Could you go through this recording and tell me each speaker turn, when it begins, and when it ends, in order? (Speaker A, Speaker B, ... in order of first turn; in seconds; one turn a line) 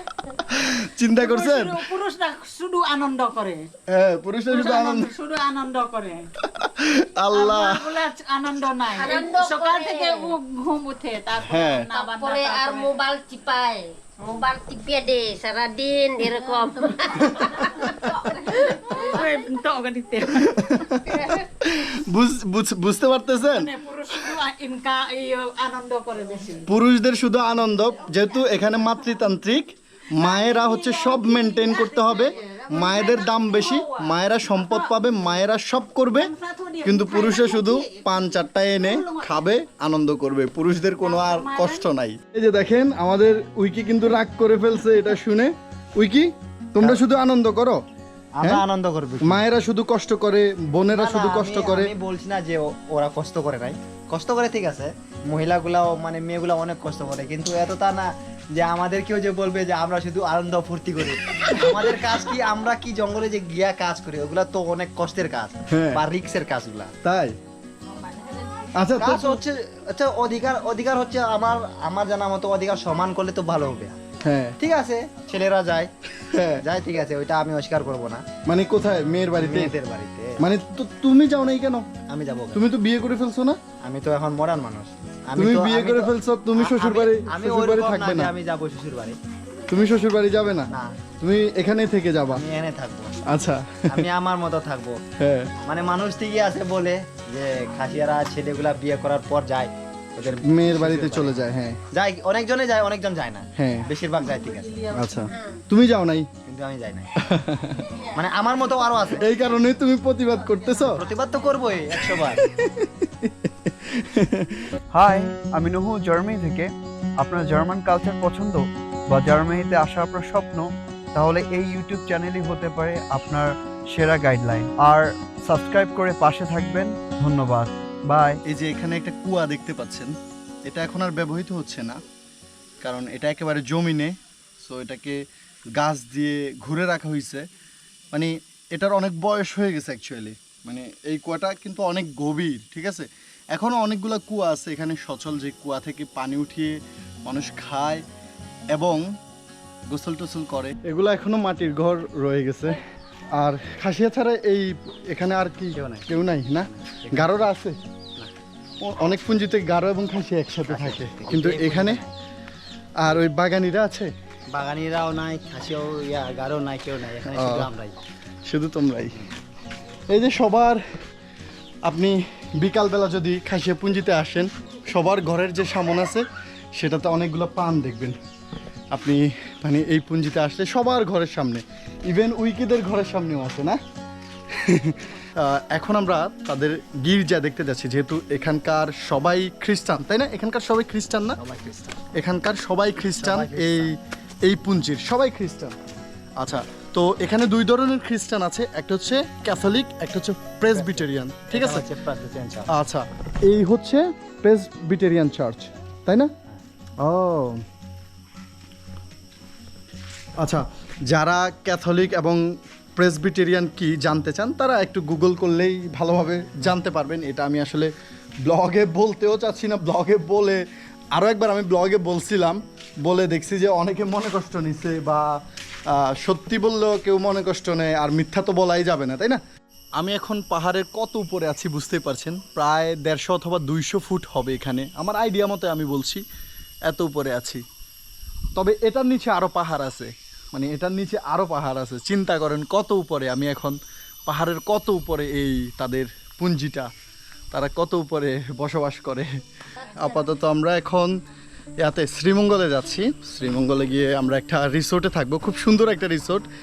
Speaker A: 0.3-1.9
Speaker B: 1.2-3.7
Speaker A: 3.9-5.1
Speaker B: 4.5-6.3
Speaker A: 6.4-7.9
Speaker B: 7.3-12.9
Speaker C: 8.9-10.3
Speaker A: 11.4-11.9
Speaker C: 11.9-18.1
Speaker B: 17.8-20.9
Speaker A: 20.4-23.7
Speaker B: 23.4-26.7
Speaker A: 26.7-36.3
Speaker B: 30.2-35.0
Speaker B: 36.1-38.1
Speaker A: 36.8-47.8
Speaker B: 38.8-39.5
Speaker B: 41.0-41.9
Speaker D: 48.4-49.4
Speaker A: 49.2-51.9
Speaker D: 50.9-66.9
Speaker A: 65.7-66.0
Speaker A: 67.0-67.4
Speaker A: 68.7-69.4
Speaker D: 69.0-74.0
Speaker A: 74.2-74.5
Speaker D: 74.6-75.9
Speaker A: 76.2-76.6
Speaker D: 76.6-78.2
Speaker A: 78.5-79.7
Speaker D: 79.4-80.5
Speaker A: 80.4-81.9
Speaker D: 82.1-82.6
Speaker A: 82.5-83.6
Speaker D: 83.8-89.2
Speaker A: 85.4-88.3
Speaker A: 89.7-92.4
Speaker D: 90.7-91.0
Speaker D: 92.3-93.2
Speaker A: 93.2-94.1
Speaker D: 93.9-95.0
Speaker A: 95.2-95.5
Speaker D: 95.6-101.4
Speaker A: 100.4-101.8
Speaker D: 101.9-104.8
Speaker A: 103.6-103.9
Speaker B: 104.2-105.3
Speaker A: 104.9-106.3
Speaker C: 105.3-105.6
Speaker D: 106.5-107.1
Speaker A: 107.2-107.9
Speaker D: 108.1-109.3
Speaker A: 109.1-111.0
Speaker B: 110.6-110.9
Speaker D: 110.9-112.4
Speaker A: 112.0-114.7
Speaker E: 114.9-116.7
Speaker E: 117.2-128.4
Speaker A: 128.4-130.1
Speaker A: 130.6-132.0
Speaker A: 132.8-135.2
Speaker A: 135.7-137.4
Speaker A: 138.1-148.0
Speaker A: 148.7-149.0
Speaker A: 149.9-152.8
Speaker A: 153.3-157.8
Speaker D: 155.8-156.0
Speaker D: 157.0-157.4
Speaker A: 158.8-162.0
Speaker D: 160.7-162.1
Speaker A: 163.0-164.1
Speaker D: 164.5-168.0
Speaker A: 167.3-167.7
Speaker A: 168.5-169.2
Speaker A: 170.1-170.8
Speaker A: 171.8-178.2
Speaker A: 178.9-183.8
Speaker A: 184.5-191.4
Speaker D: 191.4-192.0
Speaker A: 192.1-195.8
Speaker D: 193.2-193.9
Speaker A: 196.4-201.9
Speaker D: 200.7-202.7
Speaker A: 202.7-206.3
Speaker A: 207.0-207.6
Speaker A: 210.4-212.4
Speaker A: 213.0-217.9
Speaker A: 218.4-220.6
Speaker A: 221.1-225.3
Speaker A: 225.9-229.4
Speaker A: 230.0-236.2
Speaker A: 236.9-237.6
Speaker A: 238.6-246.9
Speaker A: 247.5-251.1
Speaker A: 251.8-256.5